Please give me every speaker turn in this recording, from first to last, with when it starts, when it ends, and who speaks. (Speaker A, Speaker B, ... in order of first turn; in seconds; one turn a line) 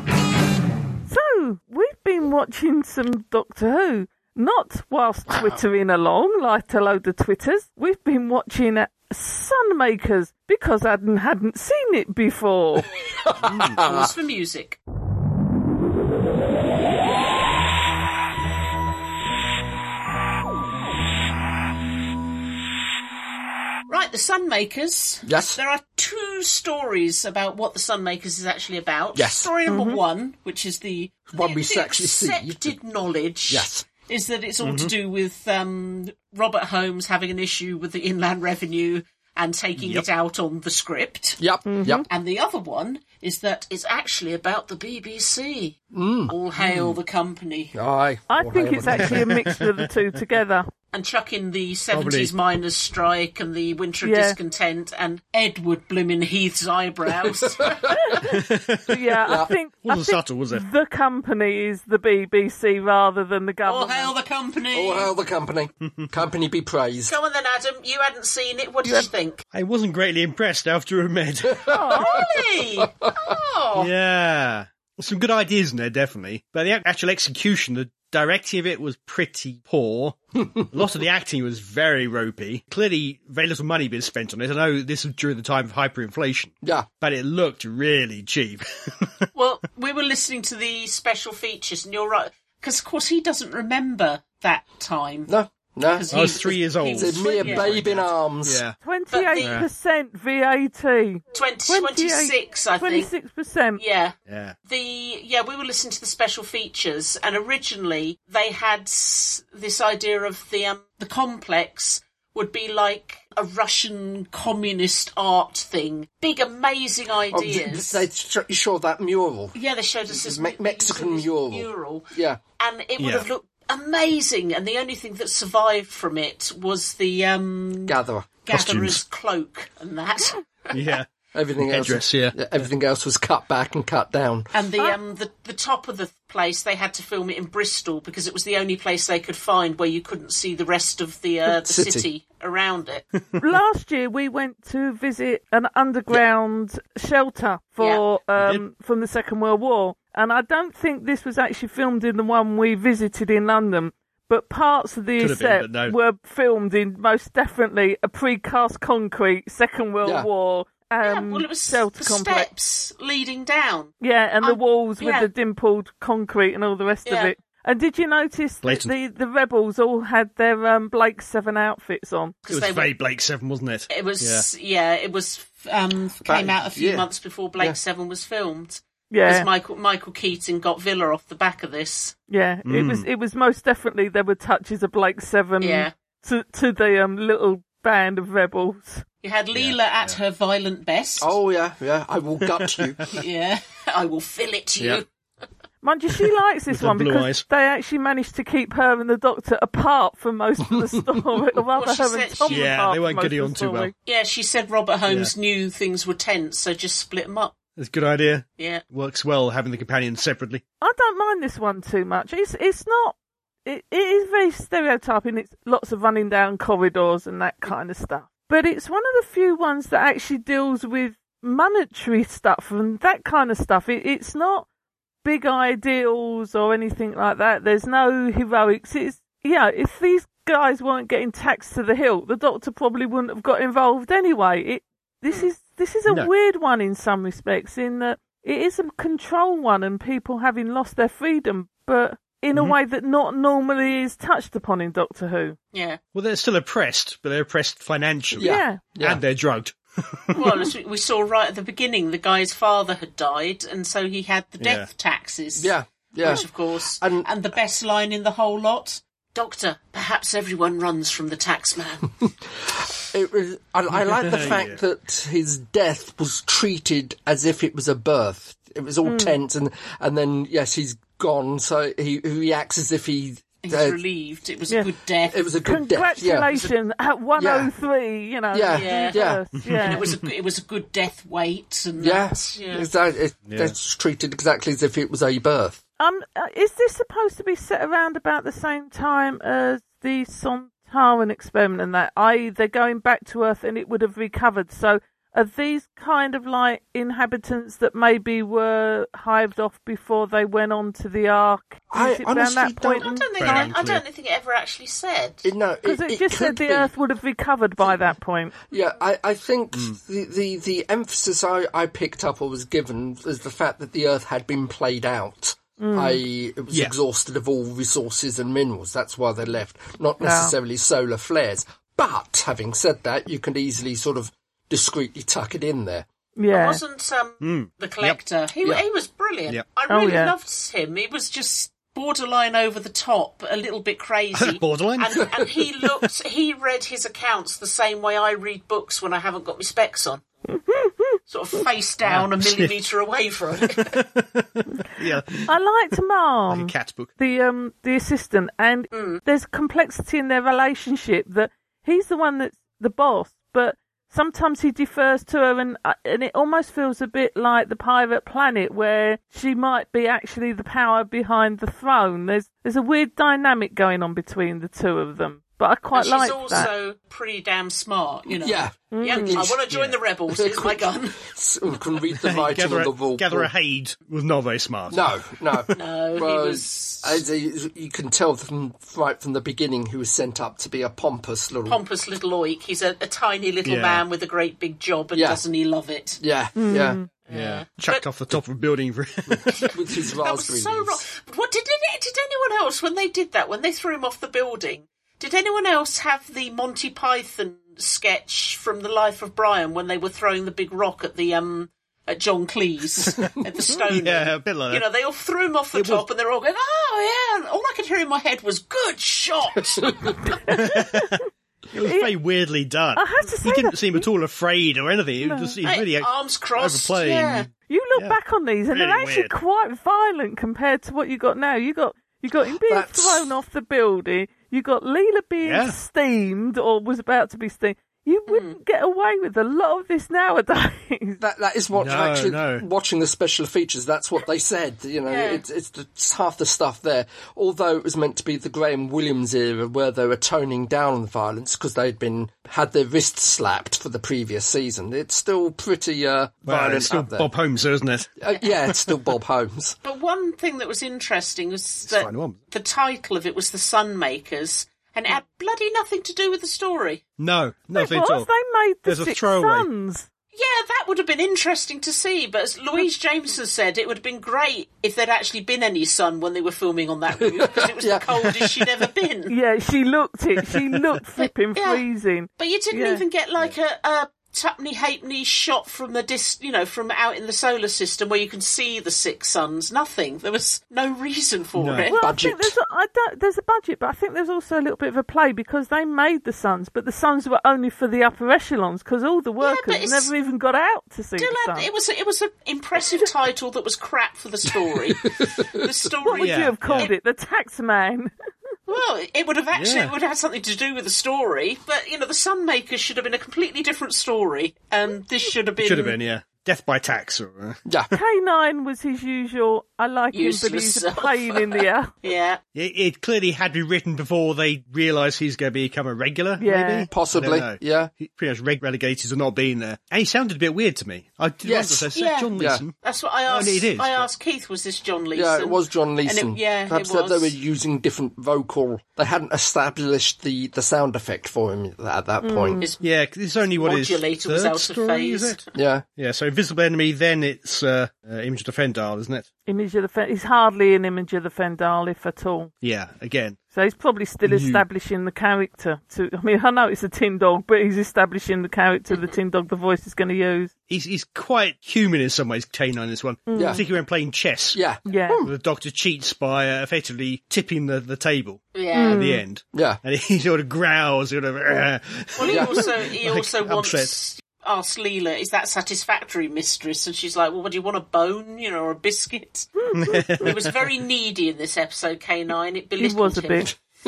Speaker A: 1.1-12.9
Speaker B: 13.2-14.1
Speaker C: 13.4-13.8
Speaker D: 13.6-14.8
Speaker D: 23.9-41.4
Speaker B: 25.2-25.6
Speaker B: 29.1-29.5
Speaker A: 29.7-30.0
Speaker B: 31.3-32.7
Speaker B: 33.5-33.9
Speaker C: 34.6-34.9
Speaker C: 39.8-40.0
Speaker B: 41.4-42.0
Speaker A: 41.6-42.0
Speaker D: 42.1-47.7
Speaker B: 45.9-46.3
Speaker C: 46.6-47.0
Speaker B: 47.7-49.3
Speaker A: 48.3-50.7
Speaker C: 49.0-49.6
Speaker D: 50.9-58.1
Speaker C: 51.9-52.3
Speaker A: 54.0-54.4
Speaker B: 57.4-58.2
Speaker C: 58.2-59.0
Speaker A: 58.9-64.1
Speaker B: 59.3-59.5
Speaker C: 59.8-60.6
Speaker D: 63.6-65.1
Speaker B: 64.7-67.1
Speaker D: 67.1-69.4
Speaker C: 69.5-71.7
Speaker B: 71.5-72.0
Speaker A: 71.7-72.3
Speaker D: 72.0-73.9
Speaker B: 72.8-73.3
Speaker C: 73.8-89.3
Speaker D: 89.3-95.3
Speaker B: 95.3-96.4
Speaker D: 95.9-97.7
Speaker C: 96.1-98.8
Speaker B: 97.0-98.6
Speaker A: 98.8-103.8
Speaker D: 99.1-99.6
Speaker C: 99.4-99.7
Speaker D: 101.3-103.1
Speaker D: 103.8-118.0
Speaker C: 104.3-104.5
Speaker B: 117.3-119.6
Speaker D: 119.5-131.0
Speaker B: 120.1-122.4
Speaker C: 123.0-123.2
Speaker B: 127.9-128.3
Speaker C: 128.5-129.0
Speaker C: 130.7-131.1
Speaker B: 131.3-134.5
Speaker C: 131.6-132.4
Speaker D: 134.5-143.1
Speaker B: 141.5-142.1
Speaker A: 143.4-162.5
Speaker D: 147.8-148.0
Speaker C: 148.4-148.6
Speaker C: 155.2-155.9
Speaker B: 160.0-160.3
Speaker D: 161.0-165.3
Speaker A: 164.0-172.3
Speaker D: 167.1-167.3
Speaker C: 168.6-168.9
Speaker D: 172.4-172.9
Speaker C: 172.5-174.4
Speaker D: 173.9-182.2
Speaker B: 176.2-177.1
Speaker A: 179.1-179.5
Speaker A: 182.3-189.0
Speaker C: 182.6-183.1
Speaker D: 185.6-185.9
Speaker D: 189.2-191.3
Speaker C: 189.5-190.2
Speaker B: 191.2-193.2
Speaker C: 192.7-193.1
Speaker D: 193.1-195.1
Speaker A: 195.8-203.9
Speaker C: 196.7-197.4
Speaker D: 201.7-202.7
Speaker C: 202.5-203.9
Speaker D: 204.0-207.6
Speaker C: 205.1-205.3
Speaker C: 207.8-210.6
Speaker D: 208.6-208.8
Speaker A: 210.8-224.7
Speaker A: 225.2-245.6
Speaker D: 245.7-246.0
Speaker C: 246.1-250.7
Speaker B: 248.3-249.2
Speaker A: 248.4-248.8
Speaker D: 250.3-262.1
Speaker C: 254.6-254.9
Speaker B: 255.6-257.3
Speaker B: 262.6-274.0
Speaker C: 263.9-264.8
Speaker A: 269.0-269.4
Speaker D: 273.6-275.5
Speaker B: 275.3-276.5
Speaker A: 275.6-280.0
Speaker B: 277.4-277.7
Speaker B: 278.5-279.4
Speaker D: 278.7-279.2
Speaker C: 279.6-280.2
Speaker D: 279.8-282.9
Speaker B: 282.0-285.8
Speaker C: 283.5-283.7
Speaker A: 286.0-303.3
Speaker B: 301.9-303.6
Speaker D: 303.0-305.5
Speaker C: 303.4-304.0
Speaker B: 305.4-306.9
Speaker A: 305.8-308.5
Speaker B: 308.6-326.1
Speaker A: 315.8-316.2
Speaker A: 320.2-320.5
Speaker A: 326.4-326.8
Speaker D: 326.5-340.2
Speaker C: 327.4-328.8
Speaker A: 329.9-330.3
Speaker C: 334.4-335.3
Speaker A: 340.5-341.2
Speaker D: 341.3-344.0
Speaker C: 342.1-342.7
Speaker C: 343.7-345.5
Speaker A: 345.4-366.7
Speaker C: 346.5-347.1
Speaker D: 348.9-349.2
Speaker D: 365.9-371.2
Speaker B: 368.4-369.6
Speaker A: 368.9-369.4
Speaker C: 369.7-370.0
Speaker B: 370.3-373.5
Speaker C: 372.1-375.0
Speaker B: 374.9-381.8
Speaker D: 375.7-377.2
Speaker D: 381.6-386.2
Speaker C: 383.6-384.0
Speaker B: 385.1-385.4
Speaker B: 386.2-387.0
Speaker A: 386.6-387.1
Speaker D: 387.2-388.0
Speaker C: 387.3-389.8
Speaker D: 389.5-410.4
Speaker B: 389.6-391.0
Speaker C: 403.9-404.8
Speaker C: 405.7-406.0
Speaker A: 410.4-411.2
Speaker C: 410.5-411.2
Speaker C: 411.7-418.2
Speaker A: 411.7-412.1
Speaker A: 412.9-414.0
Speaker A: 415.2-415.6
Speaker D: 415.6-417.5
Speaker A: 417.7-431.2
Speaker C: 418.7-419.3
Speaker B: 422.5-423.3
Speaker C: 425.4-425.7
Speaker D: 428.3-428.6
Speaker B: 431.2-447.3
Speaker C: 431.8-432.6
Speaker D: 435.1-435.4
Speaker C: 446.4-448.1
Speaker B: 448.2-449.8
Speaker D: 449.8-457.0
Speaker C: 451.9-452.4
Speaker C: 457.2-458.3
Speaker A: 457.7-460.1
Speaker C: 458.9-459.7
Speaker D: 460.3-469.3
Speaker B: 467.2-468.6
Speaker A: 469.3-473.0
Speaker D: 471.6-471.8
Speaker D: 472.4-482.0
Speaker C: 481.6-481.9
Speaker A: 481.9-491.7
Speaker B: 482.0-482.5
Speaker D: 489.4-490.1
Speaker D: 491.2-496.9
Speaker B: 495.0-495.6
Speaker A: 496.0-498.1
Speaker C: 496.1-496.9
Speaker D: 498.7-506.0
Speaker C: 499.5-499.9
Speaker C: 505.6-507.6
Speaker B: 507.6-507.9
Speaker A: 507.9-511.9
Speaker D: 510.1-512.4
Speaker C: 512.5-522.7
Speaker A: 516.4-516.9
Speaker B: 516.9-517.9
Speaker B: 521.4-522.6
Speaker D: 521.9-527.3
Speaker C: 523.3-524.1
Speaker B: 525.1-532.6
Speaker A: 532.2-532.7
Speaker D: 532.6-532.8
Speaker C: 532.8-535.4
Speaker D: 533.5-535.5
Speaker B: 535.5-535.8
Speaker C: 536.0-539.3
Speaker A: 539.5-542.5
Speaker C: 542.6-543.4
Speaker A: 543.5-550.5
Speaker C: 550.7-554.6
Speaker A: 553.3-553.6
Speaker B: 553.3-553.6
Speaker B: 554.5-555.3
Speaker A: 554.9-555.2
Speaker C: 555.2-563.9
Speaker D: 558.5-559.0
Speaker A: 558.7-559.2
Speaker B: 559.5-559.8
Speaker D: 562.1-569.6
Speaker B: 562.3-562.6
Speaker C: 569.7-570.5
Speaker A: 569.7-570.0
Speaker D: 570.1-573.5
Speaker A: 572.8-573.5